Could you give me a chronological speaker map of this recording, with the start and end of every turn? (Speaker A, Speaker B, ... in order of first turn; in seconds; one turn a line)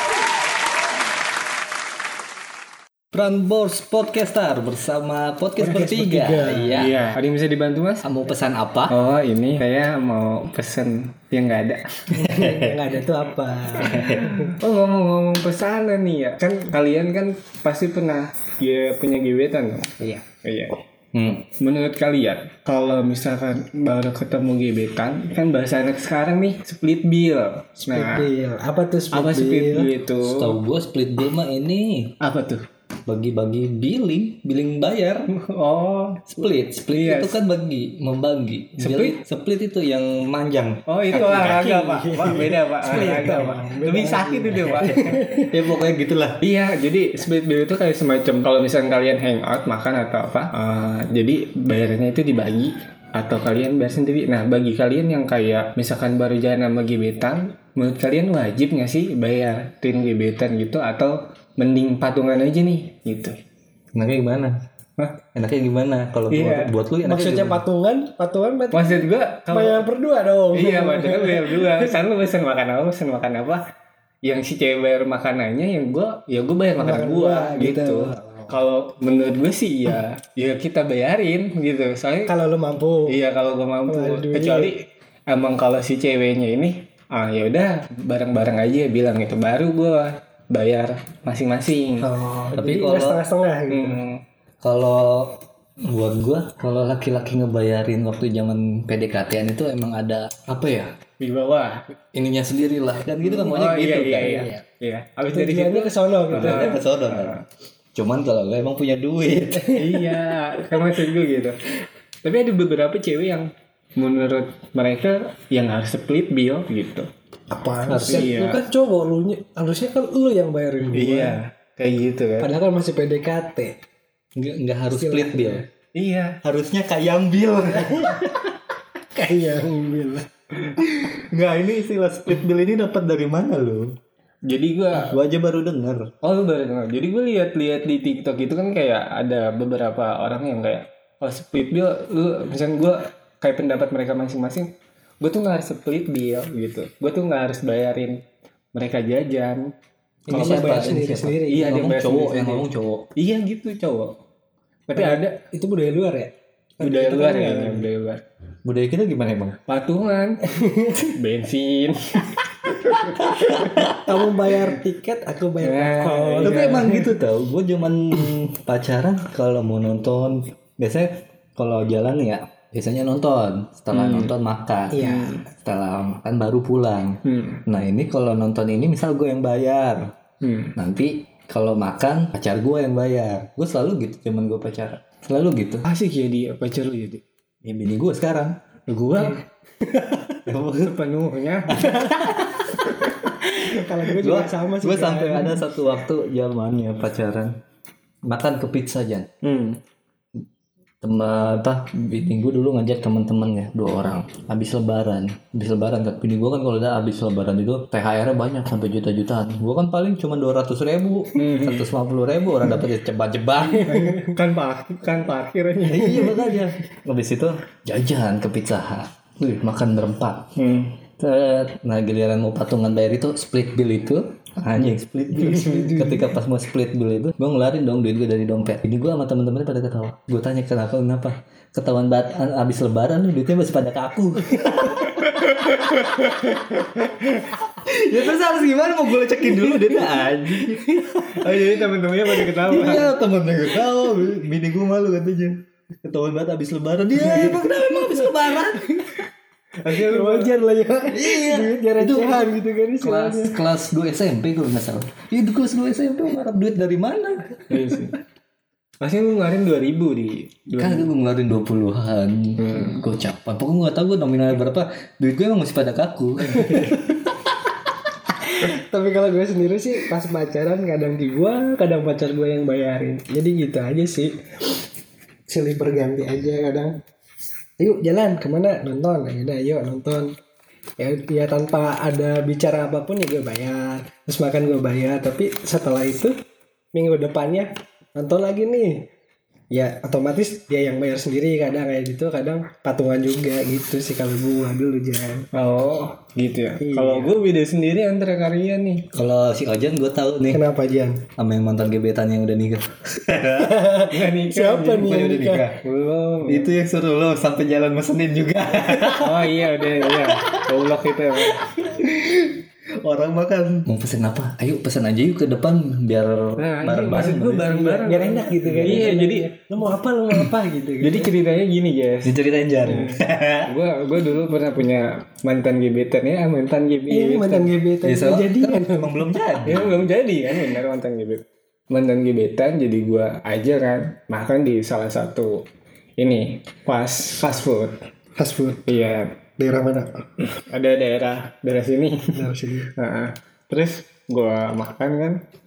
Speaker A: 3.1-6.9
Speaker B: 5.6-6.8
Speaker C: 6.7-8.0
Speaker A: 8.0-8.9
Speaker C: 8.9-12.2
Speaker B: 12.1-14.5
Speaker A: 12.2-12.8
Speaker A: 13.8-14.2
Speaker C: 14.0-20.8
Speaker A: 21.1-21.5
Speaker C: 21.6-28.3
Speaker B: 27.9-29.9
Speaker C: 29.1-30.6
Speaker A: 30.2-32.1
Speaker C: 32.2-32.6
Speaker A: 33.1-35.3
Speaker C: 35.3-37.4
Speaker A: 36.3-43.3
Speaker C: 38.8-39.2
Speaker C: 40.9-45.2
Speaker B: 41.1-45.5
Speaker A: 45.5-46.4
Speaker C: 46.4-63.4
Speaker A: 64.0-64.5
Speaker A: 65.3-67.6
Speaker C: 66.3-66.7
Speaker B: 67.0-69.0
Speaker C: 68.7-69.9
Speaker B: 69.5-72.0
Speaker C: 70.5-73.6
Speaker C: 74.2-82.3
Speaker B: 76.8-78.6
Speaker B: 82.3-83.2
Speaker C: 83.1-92.1
Speaker B: 83.9-84.7
Speaker B: 92.0-94.0
Speaker A: 92.5-93.2
Speaker C: 93.7-94.2
Speaker A: 94.6-100.9
Speaker C: 101.2-101.8
Speaker A: 102.1-104.5
Speaker C: 103.2-107.4
Speaker B: 105.3-106.8
Speaker A: 106.3-107.4
Speaker A: 108.0-109.8
Speaker B: 109.6-110.0
Speaker C: 109.7-111.6
Speaker C: 112.2-117.1
Speaker B: 117.5-121.4
Speaker A: 117.9-118.4
Speaker C: 118.0-118.7
Speaker C: 120.9-122.5
Speaker B: 122.4-123.8
Speaker A: 124.4-125.6
Speaker B: 124.9-125.7
Speaker C: 126.0-126.4
Speaker A: 126.4-128.2
Speaker B: 127.7-128.3
Speaker B: 129.2-130.3
Speaker A: 130.8-134.0
Speaker C: 134.5-135.2
Speaker A: 134.9-136.1
Speaker C: 136.2-144.7
Speaker C: 145.2-148.2
Speaker C: 148.8-149.7
Speaker B: 150.3-151.8
Speaker A: 150.3-153.1
Speaker C: 150.3-150.9
Speaker C: 151.4-154.1
Speaker C: 154.9-155.4
Speaker B: 154.9-157.9
Speaker C: 156.8-158.2
Speaker A: 158.7-159.6
Speaker C: 159.7-160.4
Speaker B: 160.5-161.1
Speaker C: 161.1-163.8
Speaker A: 162.9-164.1
Speaker B: 163.8-167.2
Speaker C: 165.6-167.0
Speaker A: 166.4-180.1
Speaker C: 173.9-174.3
Speaker B: 174.9-175.4
Speaker C: 175.0-175.4
Speaker C: 177.2-177.6
Speaker C: 180.4-180.7
Speaker A: 180.8-185.9
Speaker C: 185.9-187.2
Speaker A: 187.6-188.6
Speaker C: 188.9-189.4
Speaker A: 190.5-190.9
Speaker C: 190.8-192.0
Speaker A: 191.7-193.1
Speaker B: 193.7-195.6
Speaker A: 194.1-197.5
Speaker A: 198.3-199.3
Speaker C: 199.4-199.8
Speaker A: 201.0-214.0
Speaker C: 211.3-211.9
Speaker C: 213.7-216.5
Speaker A: 215.8-220.5
Speaker C: 220.6-221.0
Speaker A: 221.2-235.8
Speaker B: 225.4-226.3
Speaker C: 234.9-237.1
Speaker A: 237.3-249.1
Speaker C: 241.3-243.2
Speaker C: 249.8-250.5
Speaker B: 249.9-253.6
Speaker A: 251.1-257.9
Speaker C: 257.7-258.1
Speaker C: 259.0-261.1
Speaker A: 260.8-267.0
Speaker C: 262.6-263.0
Speaker B: 266.6-266.9
Speaker B: 268.6-274.3
Speaker B: 275.5-276.9
Speaker B: 277.8-280.4
Speaker B: 281.0-286.4
Speaker B: 286.9-289.0
Speaker B: 289.7-295.5
Speaker C: 295.5-299.1
Speaker B: 296.8-297.4
Speaker A: 299.1-300.6
Speaker B: 300.5-301.2
Speaker A: 301.4-303.8
Speaker B: 303.6-305.7
Speaker C: 304.1-305.2
Speaker A: 305.0-305.8
Speaker C: 305.8-306.7
Speaker A: 306.5-310.7
Speaker C: 309.1-311.7
Speaker A: 311.5-317.7
Speaker C: 316.6-319.5
Speaker B: 317.6-321.3
Speaker A: 318.6-319.1
Speaker C: 321.0-322.3
Speaker A: 322.2-323.7
Speaker C: 322.8-327.7
Speaker B: 327.1-329.4
Speaker A: 328.0-330.1
Speaker C: 329.6-335.6
Speaker C: 336.2-337.9
Speaker B: 338.4-338.8
Speaker C: 338.9-339.3
Speaker B: 339.6-340.1
Speaker C: 340.5-345.4
Speaker B: 342.3-342.9